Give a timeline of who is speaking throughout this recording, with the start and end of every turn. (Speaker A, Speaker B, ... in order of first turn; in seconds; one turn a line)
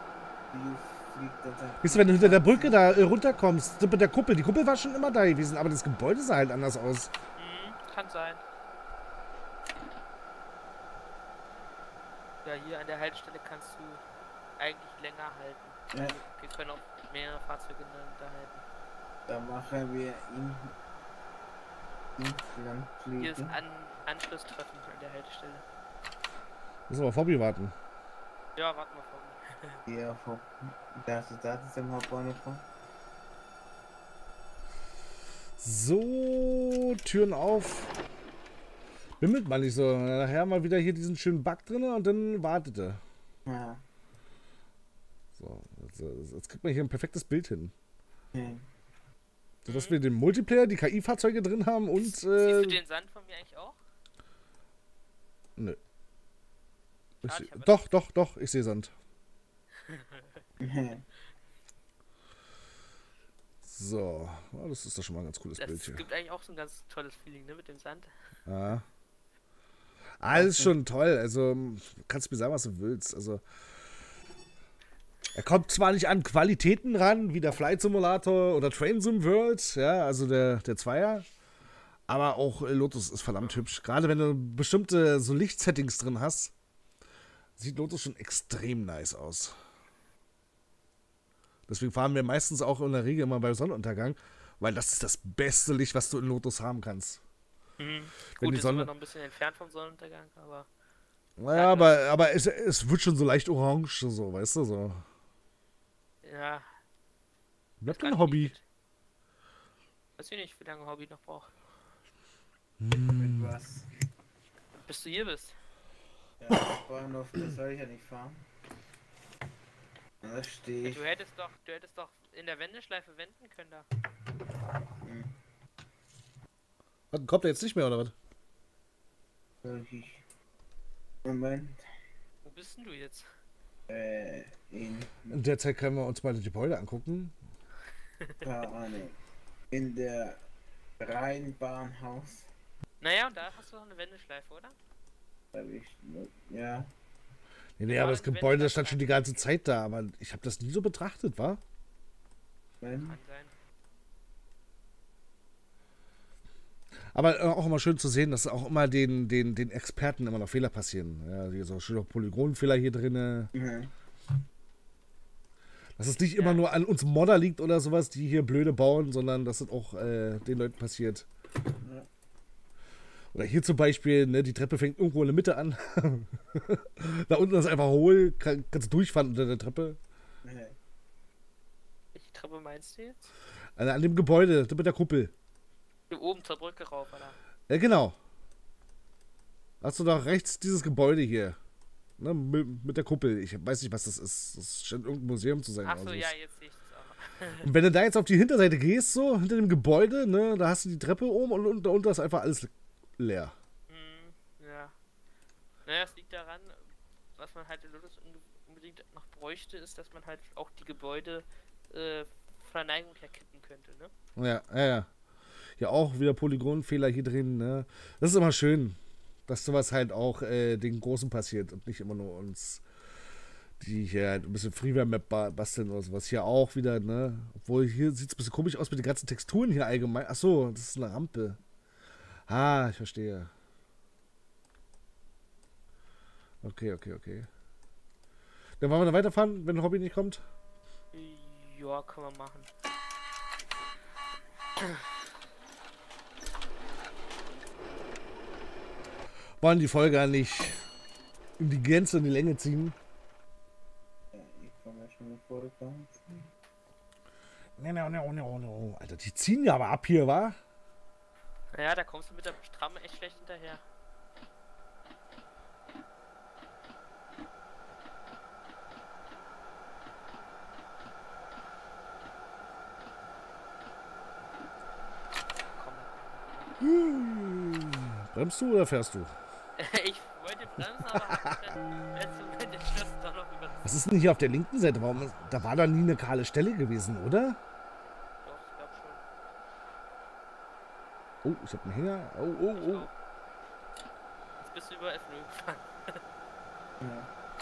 Speaker A: 0.5-2.7
Speaker B: 1.8-7.1
Speaker C: 7.3-8.4
Speaker C: 12.4-14.0
Speaker C: 14.6-18.6
Speaker A: 19.2-20.7
Speaker A: 22.2-23.5
Speaker C: 23.2-25.6
Speaker B: 26.9-27.7
Speaker C: 28.6-29.8
Speaker A: 29.9-32.6
Speaker B: 35.6-37.9
Speaker B: 39.2-43.0
Speaker A: 43.5-43.8
Speaker B: 45.4-47.7
Speaker A: 48.3-48.6
Speaker B: 49.6-52.8
Speaker C: 49.6-50.0
Speaker C: 52.1-53.8
Speaker B: 57.2-58.9
Speaker C: 57.2-57.8
Speaker C: 59.8-60.3
Speaker A: 60.6-61.0
Speaker B: 63.6-66.0
Speaker C: 65.6-68.1
Speaker B: 68.5-68.8
Speaker B: 70.2-73.4
Speaker A: 70.3-70.7
Speaker B: 75.3-81.2
Speaker B: 82.1-86.5
Speaker B: 87.6-89.5
Speaker B: 91.7-97.2
Speaker C: 97.8-100.7
Speaker B: 98.4-98.9
Speaker B: 101.4-105.0
Speaker C: 101.5-101.9
Speaker C: 106.2-106.7
Speaker B: 107.8-108.5
Speaker C: 107.9-108.6
Speaker C: 110.2-111.5
Speaker B: 112.8-113.5
Speaker A: 113.0-113.9
Speaker C: 114.8-115.5
Speaker A: 116.4-118.5
Speaker A: 120.2-121.0
Speaker C: 120.8-123.8
Speaker A: 125.0-125.3
Speaker B: 127.1-128.1
Speaker A: 129.6-130.2
Speaker A: 131.2-131.8
Speaker C: 132.4-133.3
Speaker A: 133.9-135.4
Speaker B: 135.3-137.3
Speaker A: 138.4-139.2
Speaker A: 139.7-140.4
Speaker A: 141.0-142.5
Speaker C: 143.0-144.7
Speaker A: 145.5-146.9
Speaker B: 147.8-151.6
Speaker C: 147.8-149.2
Speaker A: 152.8-153.2
Speaker C: 152.9-153.5
Speaker B: 157.1-163.5
Speaker A: 163.5-163.9
Speaker B: 166.0-171.2
Speaker C: 166.3-166.7
Speaker A: 171.8-172.1
Speaker B: 173.3-180.0
Speaker A: 180.4-180.8
Speaker C: 182.1-183.2
Speaker B: 183.8-185.3
Speaker C: 186.1-187.4
Speaker B: 187.7-188.2
Speaker B: 189.8-191.6
Speaker B: 192.2-196.3
Speaker C: 195.8-197.7
Speaker B: 197.6-203.5
Speaker C: 203.9-204.9
Speaker C: 205.8-206.8
Speaker C: 207.4-214.1
Speaker B: 214.4-215.1
Speaker B: 215.8-222.8
Speaker B: 223.8-231.6
Speaker B: 232.5-233.5
Speaker B: 236.6-237.5
Speaker B: 238.8-240.4
Speaker C: 241.1-242.7
Speaker C: 244.8-245.1
Speaker B: 249.6-250.8
Speaker B: 251.6-252.9
Speaker A: 254.3-256.5
Speaker B: 257.8-260.6
Speaker C: 261.7-263.8
Speaker C: 275.7-276.7
Speaker B: 276.8-279.3
Speaker C: 279.8-284.0
Speaker B: 283.8-287.6
Speaker C: 288.4-289.2
Speaker B: 291.4-293.1
Speaker C: 292.6-293.1
Speaker C: 294.6-296.2
Speaker A: 297.0-297.3